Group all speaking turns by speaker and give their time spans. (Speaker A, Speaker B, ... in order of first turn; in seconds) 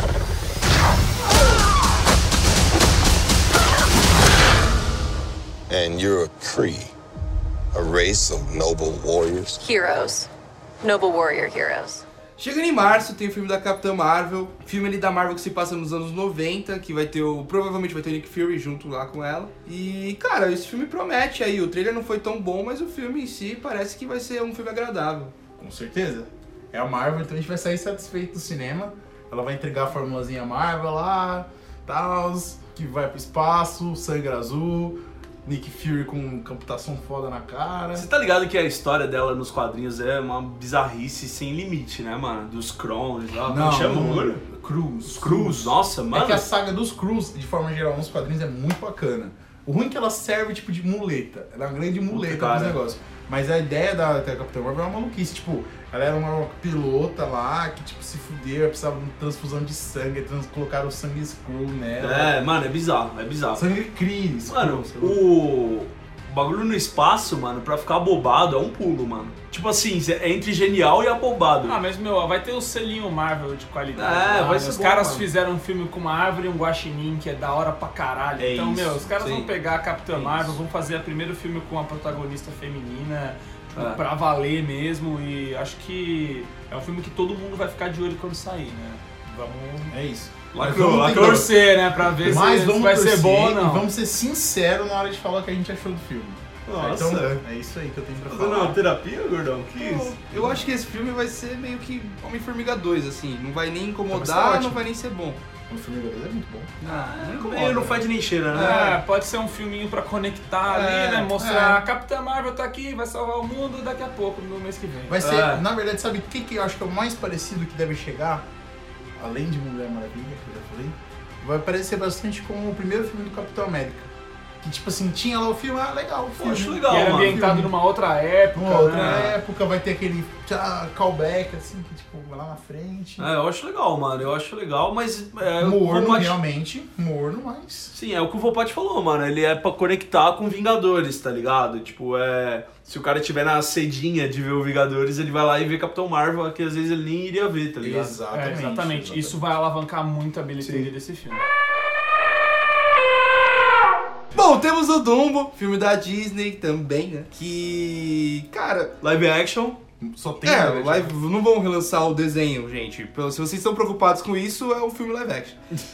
Speaker A: 5.7-6.9, 7.7-9.6
Speaker B: 9.6-10.3, 10.8-12.0
Speaker C: 12.4-25.3, 43.5-43.9, 99.8-105.4, 106.8-108.0, 108.5-109.0, 110.7-111.3, 154.3-158.9, 160.4-165.6
Speaker D: 25.6-38.1, 43.5-62.4, 63.5-65.2, 78.4-79.0, 89.9-91.5, 92.2-98.8, 100.3-100.7, 104.1-104.9, 105.7-106.8, 111.3-111.8, 115.1-118.5, 119.2-127.7, 128.5-133.3, 135.6-137.9, 147.8-149.4, 160.0-161.2
Speaker E: 38.0-44.5, 45.1-46.5, 52.1-52.8, 62.0-63.7, 64.5-71.8, 74.0-75.3, 79.2-79.5, 80.1-80.5, 83.8-84.0, 90.5-91.5, 96.7-97.4, 98.3-100.2, 106.8-108.9, 115.2-115.6, 126.4-127.5, 129.0-129.3, 133.2-136.4, 137.9-148.2, 150.6-150.9, 159.0-159.8
Speaker F: 71.7-89.9, 91.0-93.9, 108.5-115.2, 126.9-129.3, 148.3-151.4